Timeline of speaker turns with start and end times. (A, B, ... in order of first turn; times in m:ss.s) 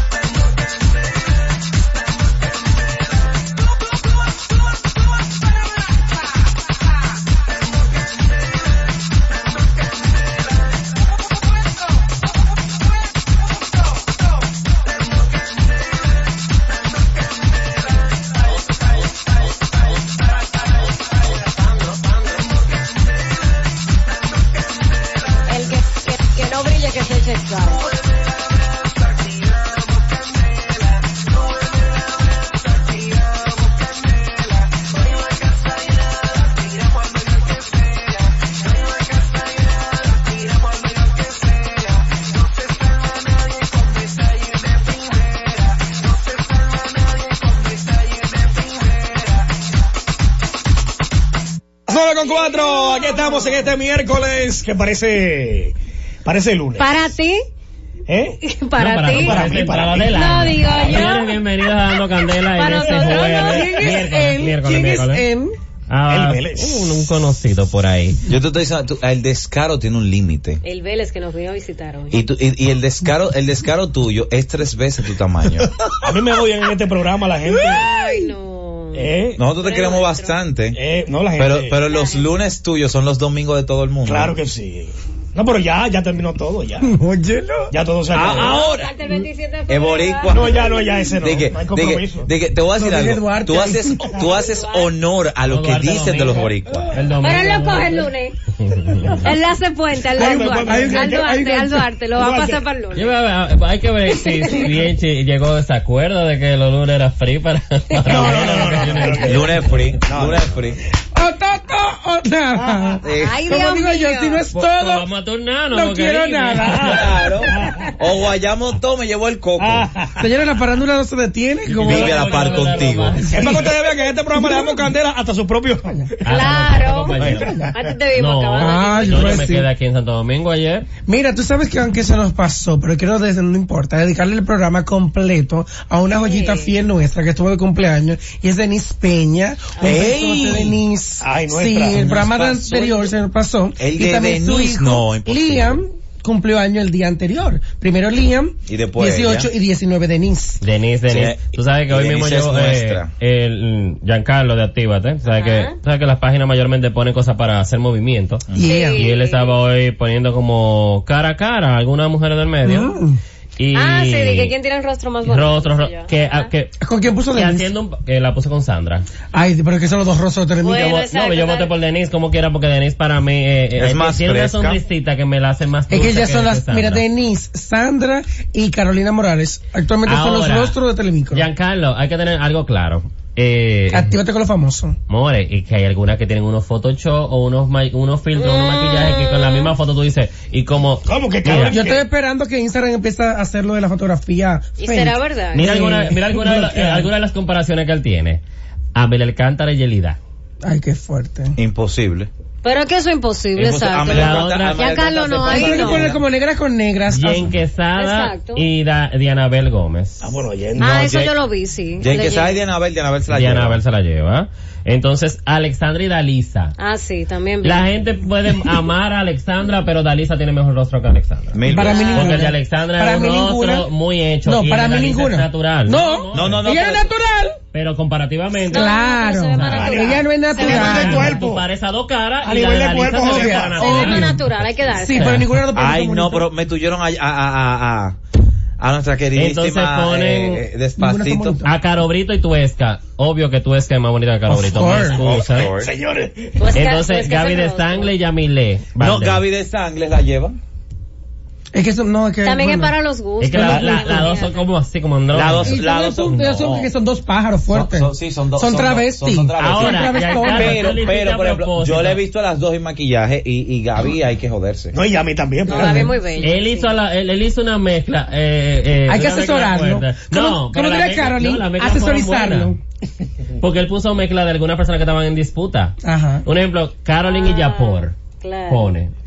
0:25.4-0:27.9 A
0:51.9-0:57.0 B
0:52.6-0:53.0 A
0:56.8-0:57.4 A
0:58.1-0:58.4 B
0:58.4-1:01.7 A
0:58.8-1:05.3 C
0:59.1-1:00.6 B
1:02.5-1:04.0 A
1:03.1-1:05.5 D
1:05.9-1:08.2 C
1:06.1-1:07.0 B
1:08.2-1:10.6 E
1:10.6-1:12.2 A
1:12.1-1:15.7 E
1:15.9-1:17.9 B
1:17.5-1:18.3 D
1:17.6-1:20.4 A
1:18.9-1:19.4 B
1:19.4-1:20.8 E
1:20.7-1:21.8 B
1:21.4-1:24.3 E
1:21.8-1:22.3 A
1:24.0-1:26.9 B
1:26.8-1:27.7 D
1:27.7-1:28.7 B
1:28.1-1:28.9 E
1:28.2-1:31.0 A
1:29.7-1:36.9 E
1:30.3-1:32.3 B
1:32.7-1:34.1 D
1:34.2-1:34.9 A
1:35.4-1:39.3 C
1:37.2-1:38.4 A
1:39.1-1:43.1 A
1:40.1-1:41.3 B
1:40.2-1:41.9 D
1:42.1-1:42.6 B
1:42.9-1:49.6 C
1:44.2-1:44.6 A
1:48.0-1:50.5 B
1:48.0-1:48.6 A
1:49.3-1:50.8 E
1:51.1-1:55.0 D
1:52.6-1:52.9 B
1:53.0-1:53.4 E
1:53.1-1:54.4 A
1:54.5-1:57.1 C
1:55.7-1:57.3 D
1:56.8-1:59.9 E
1:57.5-1:57.9 B
1:59.6-2:00.2 B
2:00.2-2:02.6 D
2:01.6-2:03.7 C
2:01.8-2:03.3 E
2:03.2-2:03.8 D
2:03.3-2:06.3 B
2:04.3-2:04.9 D
2:05.8-2:06.1 D
2:06.2-2:07.6 C
2:06.3-2:09.5 A
2:07.2-2:07.7 B
2:07.2-2:07.7 D
2:08.1-2:10.9 C
2:08.6-2:09.7 D
2:11.0-2:30.6 D
2:16.1-2:16.7 A
2:19.8-2:20.0 A
2:19.8-2:20.8 E
2:20.1-2:20.6 B
2:21.2-2:23.0 B
2:21.9-2:23.0 E
2:23.8-2:25.8 E
2:28.7-2:29.5 E
2:30.6-2:42.9 C
2:31.1-2:33.1 E
2:35.3-2:35.7 A
2:38.5-2:39.0 D
2:38.6-2:39.5 A
2:42.6-2:43.2 D
2:43.6-2:44.5 C
2:43.7-2:46.5 A
2:45.2-2:46.7 C
2:46.8-2:47.7 D
2:47.3-2:49.0 C
2:49.3-2:51.0 D
2:50.6-2:51.7 A
2:50.7-2:57.0 C
2:53.8-2:54.8 E
2:55.9-3:01.5 D
3:00.0-3:00.8 C
3:01.3-3:04.1 C
3:03.9-3:05.0 D
3:05.1-3:11.8 C
3:08.4-3:09.7 A
3:11.0-3:12.0 B
3:11.7-3:17.1 D
3:14.8-3:15.6 A
3:15.5-3:18.4 C
3:18.9-3:20.2 C
3:20.6-3:21.6 D
3:21.6-3:22.3 E
3:22.6-3:26.1 A
3:23.5-3:26.2 E
3:24.1-3:25.0 C
3:25.4-3:27.5 D
3:27.1-3:30.2 C
3:28.0-3:28.6 A
3:30.2-3:31.0 B
3:30.8-3:32.6 A
3:30.8-3:31.3 E
3:32.0-3:33.8 E
3:33.3-3:36.7 C
3:36.8-3:37.8 A
3:37.6-3:41.6 C
3:41.5-3:42.2 E
3:41.6-3:43.9 D
3:41.7-3:42.4 A
3:42.1-3:46.7 C
3:44.4-3:47.6 D
3:46.3-3:47.1 E
3:47.7-3:48.9 C
3:48.7-3:51.4 A
3:48.7-3:51.4 D
3:49.5-3:49.9 C
3:49.7-3:51.6 B
3:50.6-3:54.3 C
3:52.4-3:53.9 B
3:53.2-3:56.5 D
3:53.8-3:55.4 A
3:55.1-3:55.6 C
3:55.7-3:58.2 E
3:58.8-4:01.6 E
3:59.4-4:00.6 C
4:01.0-4:01.7 D
4:01.6-4:05.7 C
4:04.5-4:05.2 D
4:04.9-4:05.9 E
4:05.7-4:06.7 B
4:06.6-4:08.1 A
4:06.7-4:09.4 C
4:09.0-4:10.6 E
4:11.7-4:12.9 D
4:12.4-4:14.6 A
4:13.4-4:15.8 C
4:13.5-4:14.2 D
4:13.7-4:14.0 B
4:15.3-4:16.9 E
4:15.5-4:21.0 D
4:17.7-4:25.0 E
4:19.6-4:22.2 C
4:24.9-4:26.2 B
4:25.7-4:26.9 A
4:25.7-4:26.2 D
4:26.4-4:32.8 C
4:29.1-4:32.8 D
4:33.6-4:38.1 C
4:36.0-4:36.4 D
4:37.2-4:38.9 A
4:38.7-4:39.1 C